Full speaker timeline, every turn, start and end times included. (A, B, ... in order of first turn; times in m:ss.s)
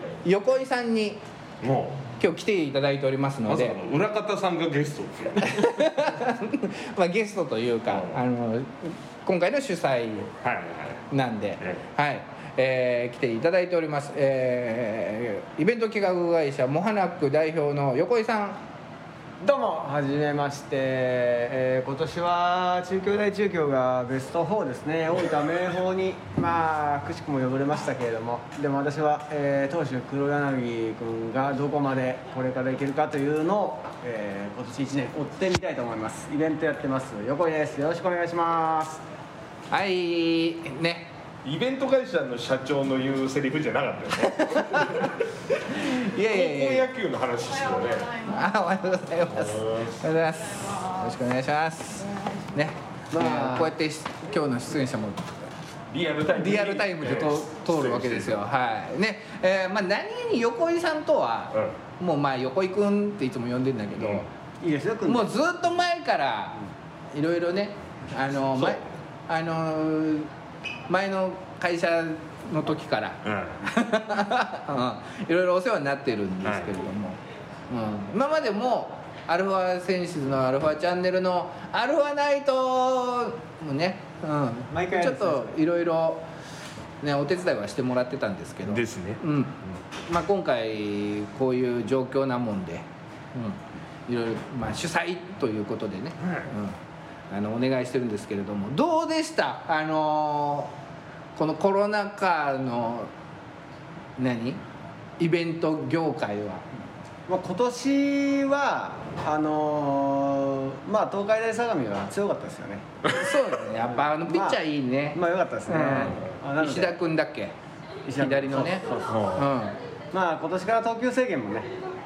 0:00.2-0:01.2 A
0:01.6-0:02.0 B
0:02.2-0:03.8 A
0:03.5-0:05.7 B
0:05.4-0:10.3 A
0:07.9-0:08.2 B
0:10.4-0:11.0 B
0:11.1-0:18.6 A
0:19.4-0:39.0 C
0:39.7-0:41.1 A
0:41.4-0:45.1 B
0:44.2-0:46.8 A
0:46.2-0:48.1 B
0:48.3-0:55.5 A
0:49.4-0:50.0 B
0:53.1-0:53.7 C
0:55.9-0:58.4 B
0:56.3-1:04.2 A
1:04.0-1:04.2 B
1:04.6-1:05.3 C
1:05.0-1:06.6 A
1:07.1-1:10.3 A
1:10.9-1:17.2 A
1:13.2-1:13.6 B
1:16.4-1:16.7 B
1:17.7-1:26.2 A
1:24.7-1:25.5 C
1:27.0-1:36.8 A
1:28.7-1:29.2 B
1:36.2-1:36.5 B
1:37.3-1:40.7 A
1:41.4-1:43.1 A
1:44.2-1:44.6 A
1:45.2-1:46.6 A
1:47.3-1:52.8 C
1:53.1-1:57.5 A
1:53.8-1:54.6 C
1:55.1-1:57.0 C
1:58.1-1:59.1 C
1:58.2-1:59.7 A
1:59.0-1:59.5 B
2:00.1-2:01.7 C